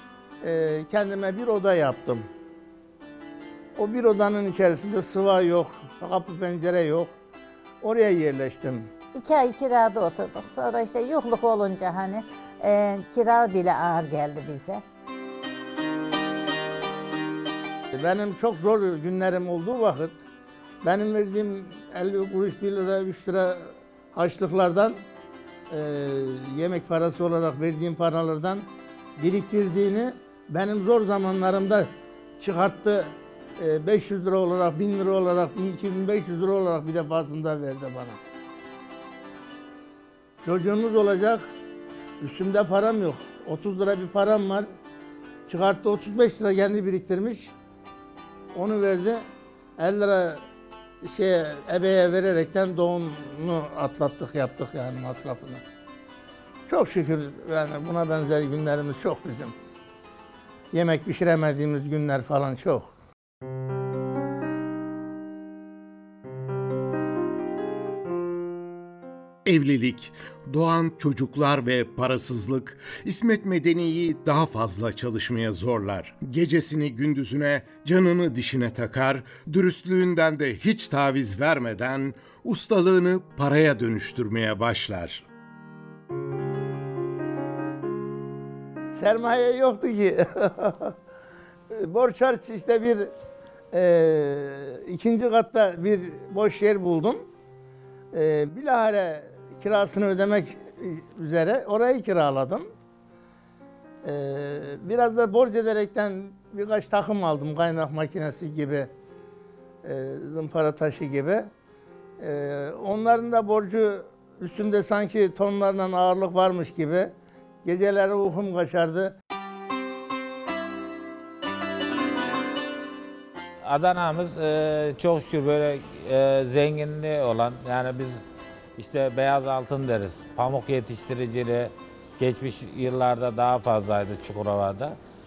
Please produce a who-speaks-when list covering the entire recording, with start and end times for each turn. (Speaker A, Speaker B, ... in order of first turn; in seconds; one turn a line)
Speaker A: 0.4-2.3
Speaker A: 3.8-7.1
Speaker A: 7.8-8.9
Speaker B: 9.1-14.8
Speaker A: 17.9-20.2
Speaker A: 20.8-25.0
Speaker A: 25.7-28.6
Speaker A: 29.2-38.2
Speaker A: 40.4-41.5
Speaker A: 42.2-44.7
Speaker A: 45.5-47.5
Speaker A: 48.5-49.2
Speaker A: 49.8-50.4
Speaker A: 51.0-55.6
Speaker A: 56.7-59.5
Speaker A: 60.7-62.9
Speaker C: 69.4-85.2
Speaker A: 88.9-90.9
Speaker A: 91.7-93.1
Speaker A: 93.7-97.2
Speaker A: 98.1-102.7
Speaker A: 104.0-108.9
Speaker A: 109.8-111.5
Speaker A: 112.2-117.1
Speaker A: 117.6-119.2
Speaker D: 123.6-128.2
Speaker D: 128.8-135.0